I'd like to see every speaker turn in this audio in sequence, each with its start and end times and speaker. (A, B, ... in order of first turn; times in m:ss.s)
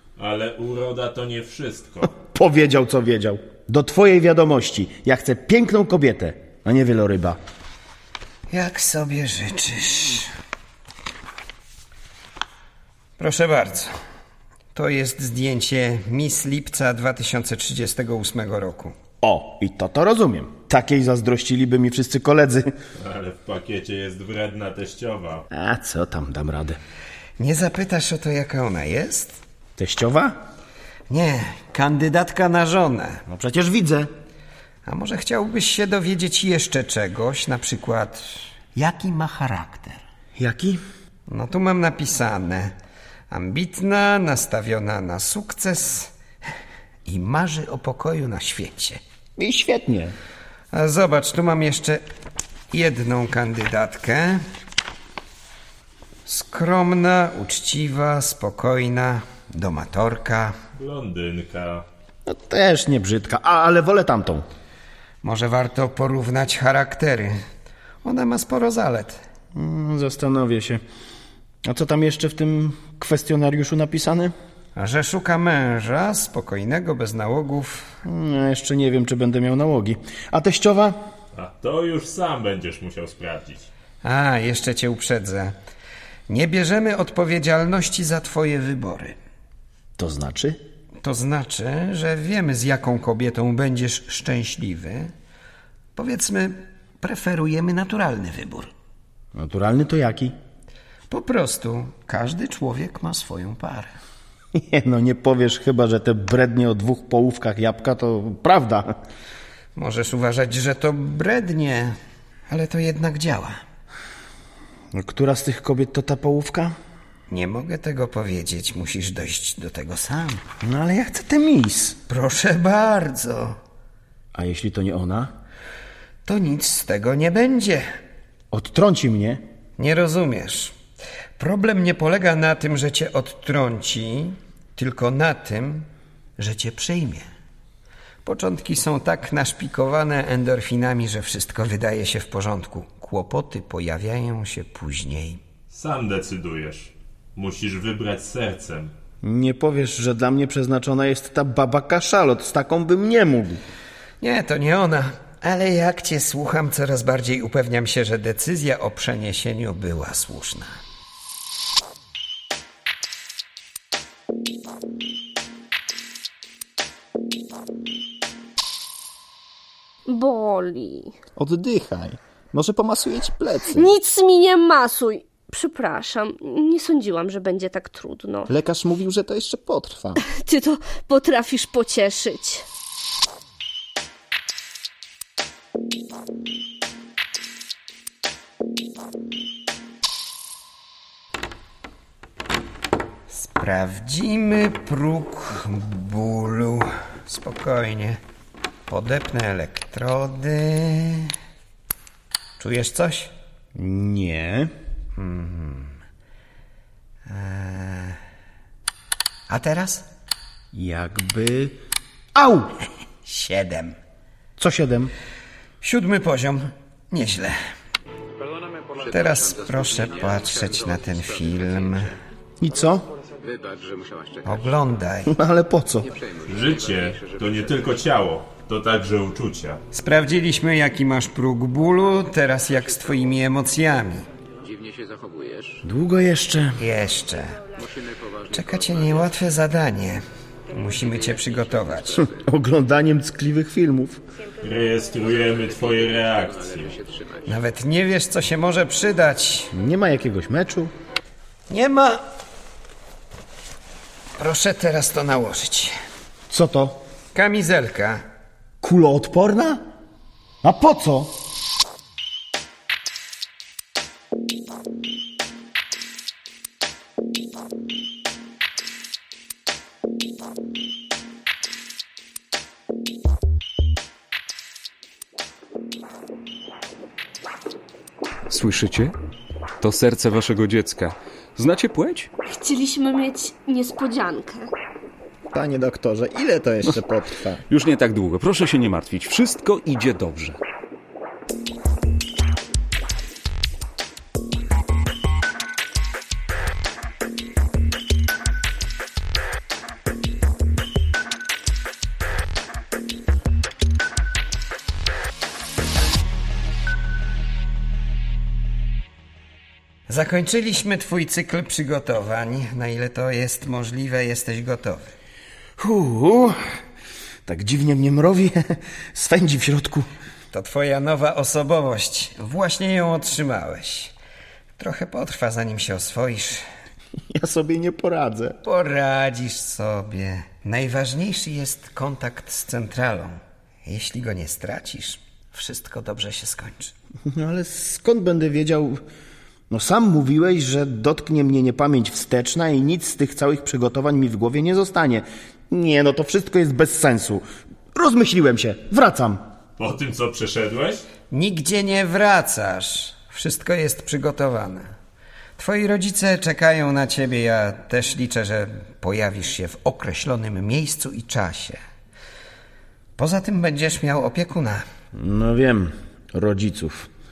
0:00.2-0:02.1 A
0:02.1-0:07.4 B
0:08.5-0:10.3 C
0:13.2-0:13.9 C
0:14.7-0:19.0 C
0:19.2-0:22.7 B
0:23.0-0:25.4 A
0:25.5-0:26.8 B
0:27.4-0:29.4 C
0:29.8-0:30.4 B
0:31.1-0:33.2 C
0:33.3-0:34.1 B
0:34.8-0:40.0 C
0:40.4-0:40.8 B
0:41.3-0:42.7 C
0:43.3-0:46.1 C
0:47.0-0:49.0 C
0:49.4-0:50.1 B
0:50.7-0:52.0 C
0:52.7-0:54.4 C
0:56.2-1:00.5 C
1:00.8-1:01.8 A
1:02.2-1:04.4 B
1:05.2-1:07.4 C
1:08.0-1:09.2 C
1:09.5-1:10.8 B
1:11.6-1:14.3 B
1:14.7-1:18.0 C
1:18.0-1:21.0 B
1:21.3-1:23.7 A
1:24.0-1:25.5 C
1:26.3-1:29.2 C
1:30.0-1:30.6 B
1:31.0-1:35.1 C
1:35.9-1:38.7 C
1:39.3-1:40.3 B
1:41.1-1:43.9 C
1:44.5-1:48.9 B
1:49.7-1:52.0 C
1:52.5-1:53.6 C
1:54.9-1:56.7 B
1:57.3-2:00.4 C
2:00.6-2:02.0 B
2:02.1-2:03.6 C
2:04.3-2:05.3 B
2:06.2-2:07.8 C
2:08.5-2:09.4 B
2:09.8-2:10.7 C
2:11.4-2:17.2 C
2:18.2-2:25.4 C
2:25.7-2:28.9 A
2:29.2-2:33.6 B
2:34.2-2:40.8 C
2:50.1-2:51.2 D
2:51.4-2:53.9 E
2:53.6-2:58.5 D
2:58.5-3:00.2 E
3:00.2-3:02.6 D
3:13.3-3:18.2 C
3:18.9-3:21.3 C
3:22.6-3:23.3 C
3:23.8-3:24.7 B
3:25.2-3:26.0 C
3:27.3-3:28.2 C
3:29.5-3:30.1 C
3:30.7-3:31.7 B
3:32.3-3:32.7 B
3:33.2-3:34.0 C
3:34.6-3:35.1 B
3:35.8-3:37.6 C
3:39.0-3:42.1 C
3:42.6-3:43.0 B
3:44.4-3:45.3 C
3:45.3-3:46.1 B
3:46.5-3:49.8 A
3:49.9-3:54.2 C
3:55.8-3:56.8 B
3:56.8-3:57.6 C
3:58.5-4:02.3 C
4:02.2-4:04.2 B
4:04.6-4:07.0 A
4:07.4-4:09.7 C
4:09.7-4:10.9 B
4:11.7-4:12.2 C
4:14.4-4:15.9 C
4:16.5-4:17.0 B
4:17.3-4:18.2 C
4:18.8-4:19.8 B
4:20.6-4:21.3 B
4:38.5-4:39.1 F
4:39.8-4:42.3 F
4:42.4-4:44.7 D
4:45.5-4:47.6 E
4:47.7-4:50.6 F
5:10.1-5:15.1 C
5:15.8-5:16.5 B
5:17.4-5:20.0 B
5:20.5-5:24.1 C
5:24.8-5:26.6 C
5:27.3-5:28.6 B
5:28.6-5:36.9 C
5:37.3-5:39.0 B
5:39.7-5:49.4 B
5:49.8-5:51.0 A
5:51.3-5:54.9 C
5:55.6-6:01.8 C
6:03.2-6:04.8 C
6:05.1-6:07.1 B